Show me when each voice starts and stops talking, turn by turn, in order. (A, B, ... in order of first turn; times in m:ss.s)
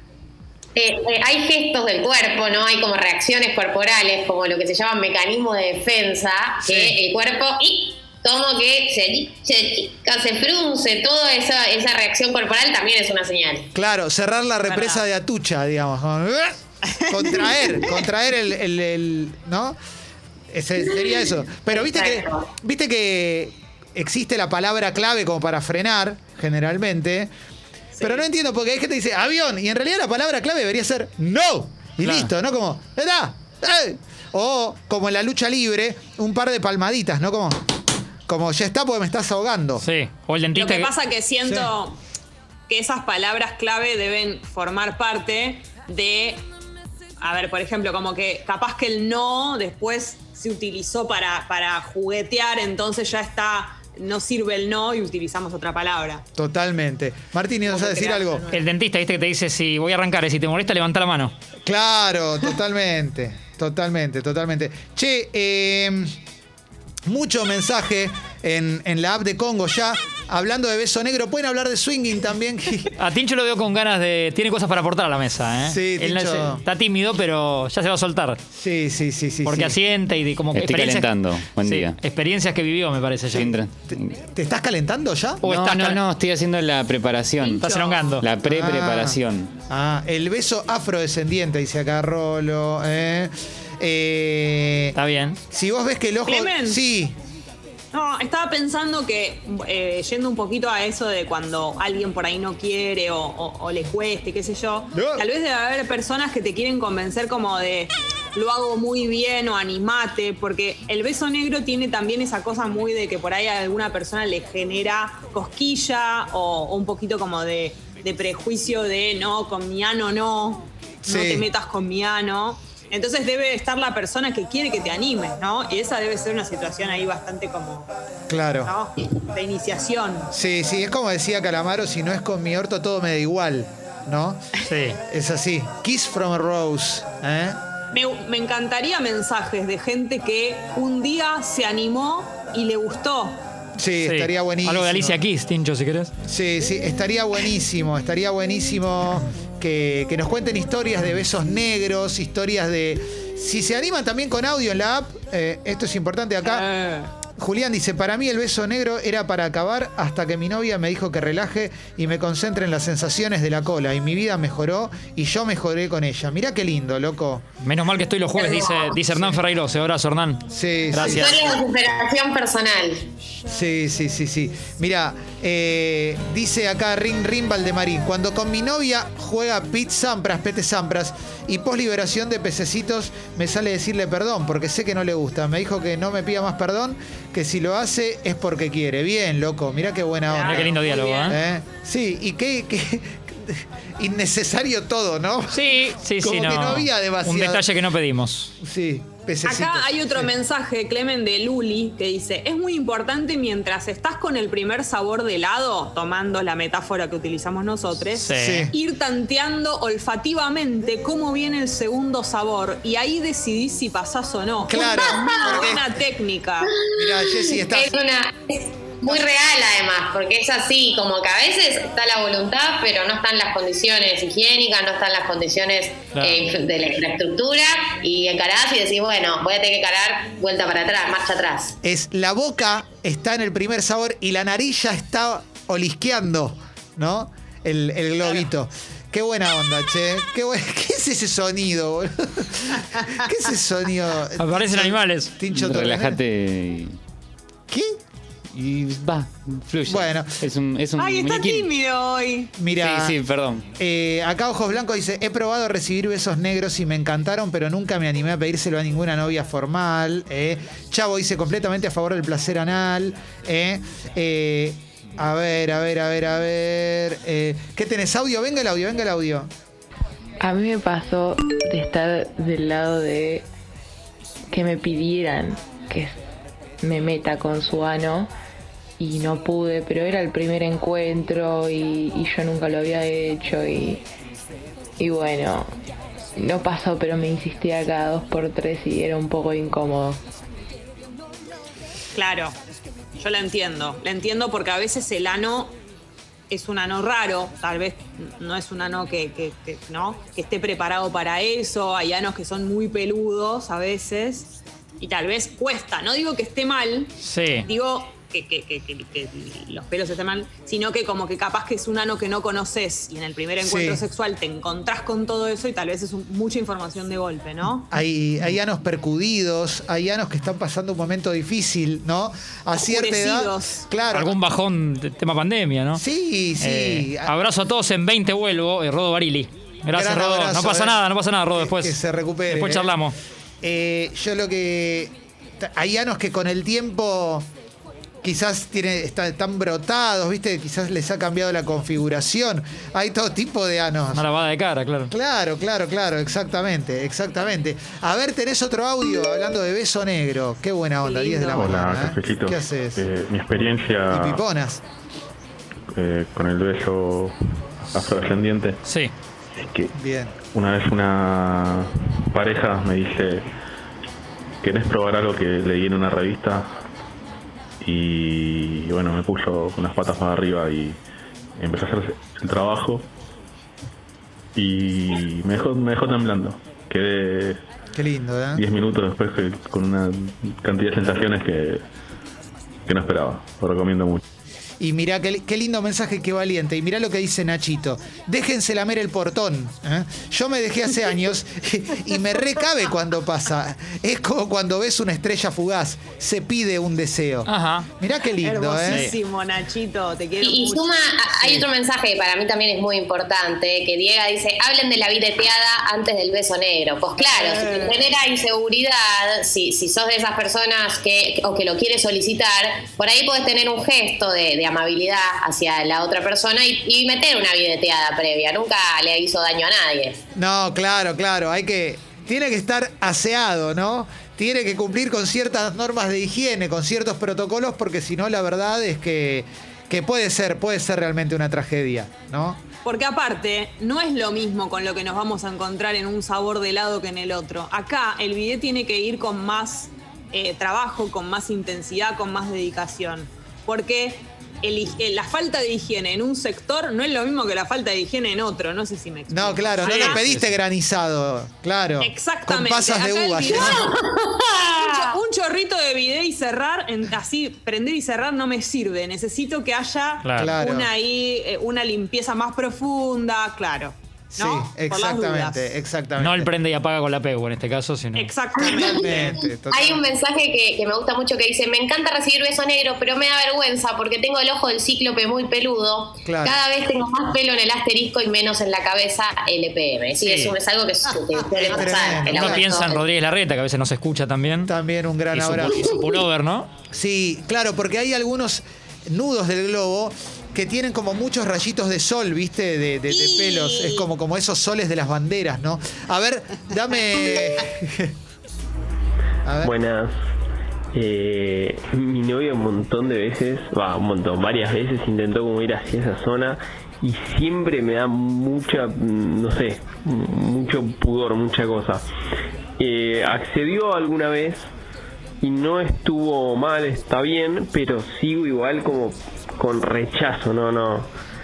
0:00.8-0:13.7 A
0:06.6-0:07.0 B
0:13.7-0:19.8 B
0:14.7-0:15.0 C
0:16.8-0:18.0 C
0:20.5-0:27.3 B
0:21.7-0:22.5 A
0:27.9-0:28.2 C
0:28.0-0:37.7 B
0:32.0-0:32.3 D
0:38.3-0:39.8 B
0:39.8-0:40.9 D
0:40.5-0:42.0 C
0:42.7-0:46.4 C
0:47.2-0:56.2 C
0:56.4-0:58.5 B
0:57.7-0:58.6 C
0:58.5-1:01.3 D
1:01.6-1:06.2 B
1:07.0-1:12.9 B
1:13.0-1:18.4 D
1:15.6-1:16.6 B
1:18.5-1:19.8 B
1:19.4-1:23.5 D
1:20.5-1:22.0 E
1:23.3-1:25.9 B
1:23.4-1:24.1 E
1:25.4-1:26.0 D
1:25.6-1:27.6 E
1:27.4-1:28.1 C
1:27.6-1:28.3 D
1:28.2-1:29.5 E
1:28.4-1:34.9 B
1:34.9-1:35.4 D
1:35.5-1:37.2 B
1:36.3-1:36.8 C
1:37.9-2:07.9 C
1:44.9-1:45.2 B
2:01.0-2:01.5 B
2:08.3-2:08.7 B
2:08.6-2:10.3 C
2:10.3-2:14.5 B
2:14.6-2:15.0 D
2:15.1-2:17.6 B
2:17.9-2:23.4 C
2:23.8-2:25.2 B
2:24.0-2:26.1 D
2:26.2-2:36.6 B
2:36.4-2:37.1 C
2:37.4-2:47.4 B
2:47.6-2:51.5 D
2:48.4-2:49.0 A
2:50.5-2:51.4 B
2:51.0-2:53.0 A
2:53.5-3:17.6 B
3:10.3-3:11.3 C
3:10.5-3:11.4 D
3:15.5-3:18.5 D
3:18.6-3:20.3 B
3:19.4-3:36.7 C
3:28.2-3:28.7 D
3:28.3-3:28.7 B
3:34.6-3:35.8 B
3:34.7-3:35.7 A
3:36.7-3:51.8 A
3:36.9-3:37.9 B
3:46.1-3:46.4 D
3:51.8-4:06.2 B
4:04.4-4:05.4 D
4:05.5-4:07.0 E
4:07.7-4:08.0 B
4:08.5-4:11.7 E
4:09.8-4:10.5 B
4:11.0-4:12.5 C
4:12.6-4:13.2 B
4:12.8-4:13.6 E
4:13.8-4:29.5 B
4:30.4-4:33.5 F
4:34.5-4:36.2 F
4:36.8-4:38.3 F
4:39.0-4:44.0 F
4:45.0-4:45.7 F
4:46.4-4:50.2 F
4:52.1-4:52.6 C
4:53.2-4:55.8 C
4:56.5-5:07.1 C
5:07.2-5:07.7 D
5:07.6-5:17.9 C
5:13.6-5:14.0 B
5:17.9-5:24.4 B
5:22.7-5:23.8 C
5:24.1-5:26.0 D
5:26.0-5:27.3 B
5:26.6-5:33.2 D
5:29.9-5:31.0 B
5:31.5-5:33.0 B
5:33.6-5:37.5 B
5:38.2-5:44.2 B
5:44.1-5:45.1 D
5:45.1-5:53.0 B
5:51.0-5:51.7 C
5:51.6-5:54.4 G
5:54.1-5:54.8 B
5:55.9-5:57.3 G
5:57.9-5:58.8 G
5:58.8-5:59.1 D
5:59.6-5:59.9 G
5:59.9-6:00.3 B
6:00.5-6:03.5 G
6:04.6-6:06.7 G
6:07.8-6:11.0 G
6:11.6-6:13.0 G
6:14.5-6:17.6 G
6:18.0-6:18.6 B
6:18.5-6:21.8 G
6:22.8-6:24.2 G
6:24.8-6:39.1 B
6:37.5-6:37.9 D
6:38.4-6:41.0 C
6:40.4-7:00.2 A
6:47.2-6:48.0 C
7:00.3-7:12.6 B
7:12.8-7:30.2 C
7:29.3-7:33.9 B
7:29.8-7:30.4 D
7:32.0-7:33.9 C
7:33.5-7:35.2 A
7:34.7-7:45.7 C
7:40.2-7:40.5 D
7:40.4-7:40.9 B
7:44.3-7:46.5 B
7:46.2-7:48.3 D
7:48.1-7:49.3 C
7:48.6-8:03.0 A
7:48.6-7:50.0 B
7:56.2-7:56.6 B
8:00.2-8:00.5 D
8:01.6-8:02.7 B
8:02.2-8:04.7 D
8:04.7-8:06.0 B
8:05.3-8:06.7 D
8:06.9-8:18.1 B
8:13.1-8:14.0 C
8:19.4-8:19.7 B
8:19.6-8:20.1 H
8:20.9-8:32.0 H
8:32.8-8:34.6 H
8:35.4-8:41.1 H